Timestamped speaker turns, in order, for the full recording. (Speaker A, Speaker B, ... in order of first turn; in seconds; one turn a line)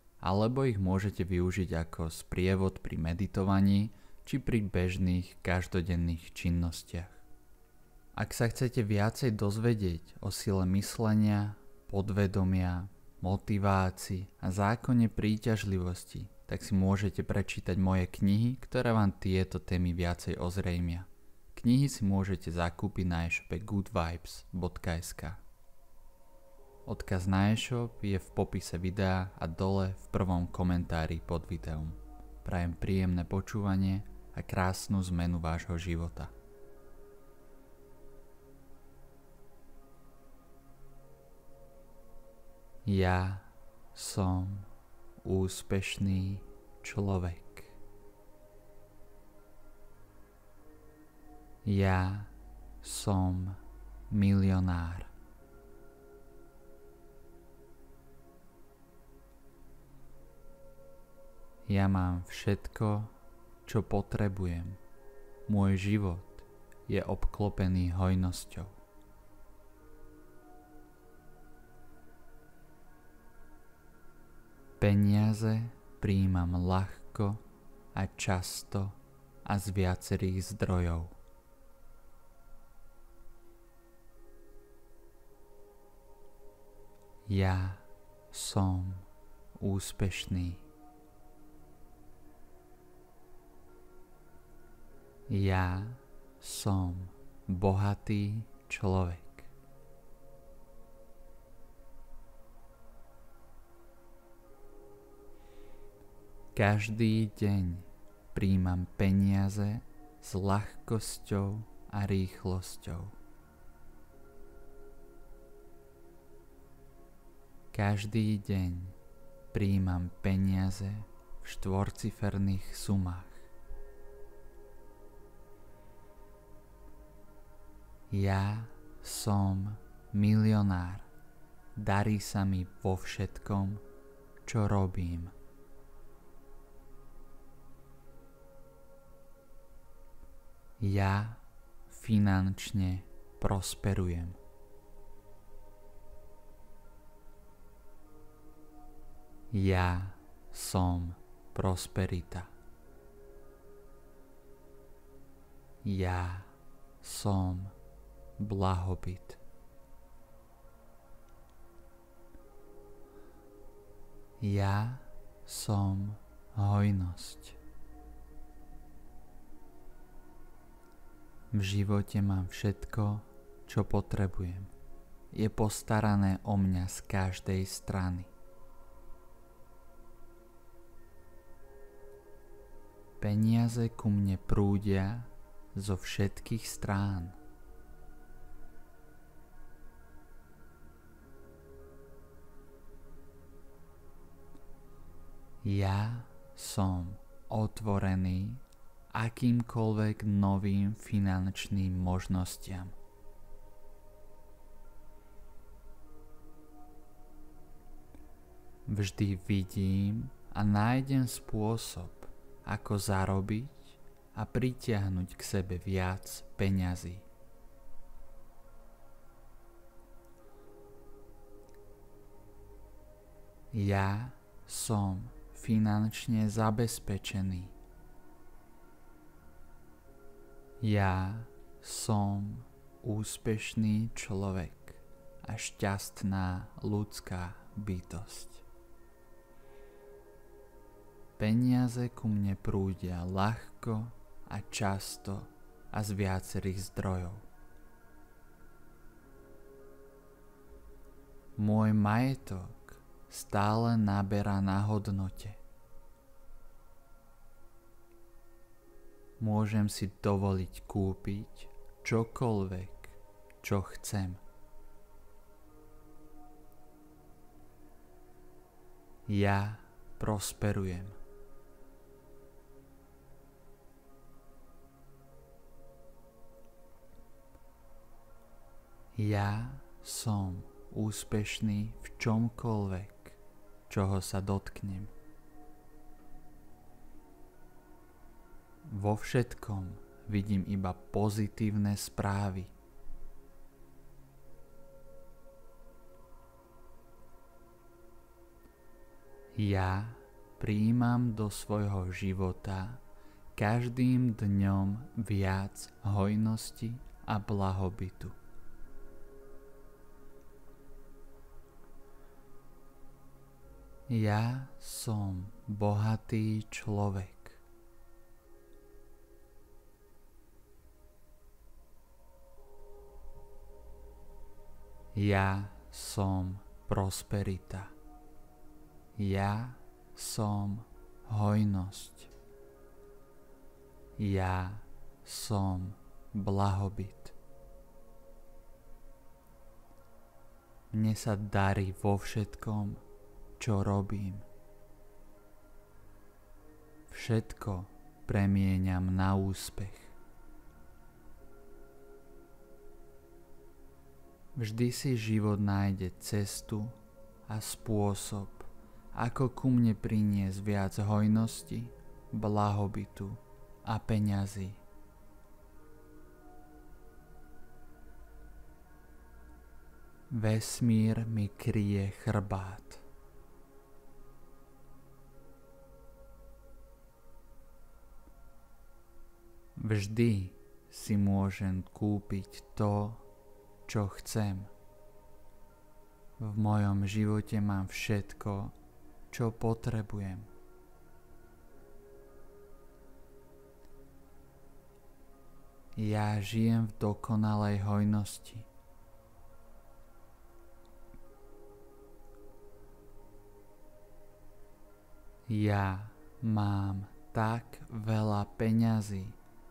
Speaker A: 0.2-7.2
Speaker A: 8.1-25.4
Speaker A: 26.9-36.3
Speaker A: 42.8-47.8
Speaker A: 51.6-55.1
Speaker A: 61.6-63.1
Speaker A: 63.6-64.8
Speaker A: 65.5-68.8
Speaker A: 74.8-77.4
Speaker A: 77.9-81.2
Speaker A: 87.2-90.7
Speaker A: 95.3-99.5
Speaker A: 106.5-113.2
Speaker A: 117.7-119.0
Speaker A: 119.5-123.5
Speaker A: 128.1-131.1
Speaker A: 131.8-133.8
Speaker A: 134.4-135.3
Speaker A: 140.8-144.4
Speaker A: 149.5-152.5
Speaker A: 155.8-157.7
Speaker A: 158.4-159.4
Speaker A: 164.4-167.6
Speaker A: 171.5-174.7
Speaker A: 175.3-178.3
Speaker A: 183.2-187.4
Speaker A: 195.6-202.9
Speaker A: 208.8-217.3
Speaker A: 223.7-227.7
Speaker A: 230.8-238.6
Speaker A: 241.4-247.5
Speaker A: 251.6-255.6
Speaker A: 259.4-264.4
Speaker A: 269.2-271.2
Speaker A: 279.1-285.1
Speaker A: 288.8-292.7
Speaker A: 299.5-303.0
Speaker A: 303.5-308.4
Speaker A: 314.1-317.6
Speaker A: 325.1-327.9
Speaker A: 329.1-332.3
Speaker A: 334.2-337.3
Speaker A: 340.9-343.0
Speaker A: 343.6-344.4
Speaker A: 347.1-350.1
Speaker A: 354.5-364.8
Speaker A: 370.3-373.0
Speaker A: 379.8-383.2
Speaker A: 383.9-384.7
Speaker A: 386.4-388.7
Speaker A: 389.3-390.5
Speaker A: 395.9-398.7
Speaker A: 405.5-409.4